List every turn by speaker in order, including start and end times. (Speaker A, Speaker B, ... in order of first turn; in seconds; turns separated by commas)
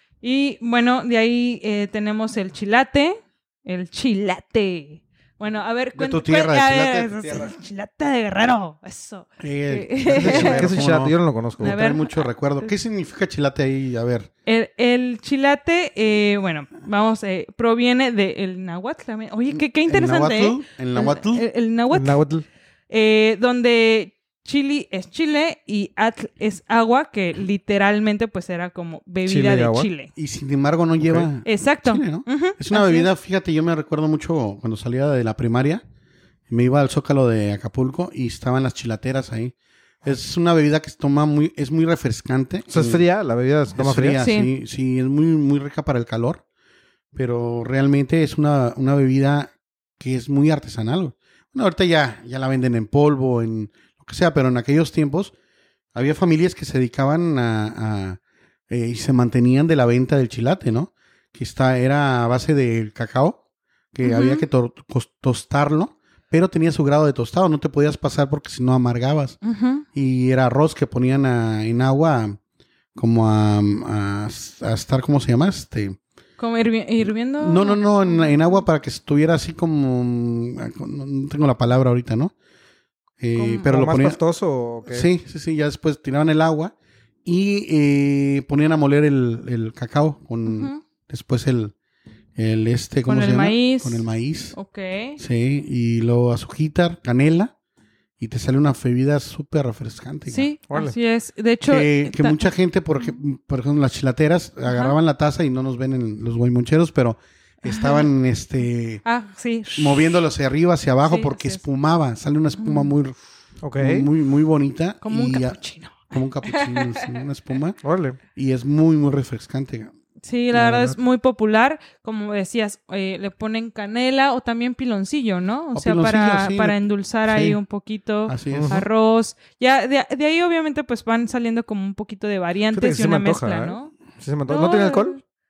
Speaker A: 0.2-10.8, Speaker B: 5.9-7.5, Speaker B: 9.4-14.3, Speaker C: 10.2-11.8, Speaker A: 11.6-12.7, Speaker A: 14.4-22.2, Speaker B: 19.5-21.5, Speaker C: 21.9-22.4, Speaker A: 22.9-30.1, Speaker C: 29.2-29.9, Speaker B: 30.1-35.8, Speaker C: 31.0-31.3, Speaker A: 31.4-33.1, Speaker B: 36.5-43.0, Speaker C: 42.7-44.2, Speaker B: 43.7-46.4, Speaker A: 44.2-44.5, Speaker B: 47.1-55.3, Speaker B: 55.9-63.4, Speaker B: 63.9-69.4, Speaker A: 64.0-64.5, Speaker A: 69.4-69.8, Speaker B: 69.9-72.4, Speaker B: 73.0-76.0, Speaker A: 76.4-78.6, Speaker B: 77.4-82.3, Speaker B: 83.2-84.2, Speaker A: 83.3-83.7, Speaker C: 83.7-85.1, Speaker B: 84.9-86.7, Speaker B: 87.2-91.7, Speaker A: 90.5-90.8, Speaker B: 92.4-94.5, Speaker A: 93.1-95.2, Speaker B: 95.2-97.5, Speaker B: 98.2-100.5, Speaker A: 100.3-102.4, Speaker C: 100.7-100.9, Speaker B: 101.6-109.0, Speaker A: 104.7-104.9, Speaker A: 107.7-108.1, Speaker A: 109.0-110.1, Speaker B: 109.8-113.2, Speaker A: 111.1-111.6, Speaker A: 112.6-112.9, Speaker C: 113.6-114.1, Speaker B: 113.8-117.8, Speaker A: 115.0-117.2, Speaker C: 117.8-118.2, Speaker B: 118.3-119.9, Speaker A: 120.2-133.9, Speaker C: 120.5-121.0, Speaker B: 125.7-127.6, Speaker B: 128.3-128.8, Speaker C: 128.5-128.9, Speaker C: 132.7-135.2, Speaker A: 134.5-135.2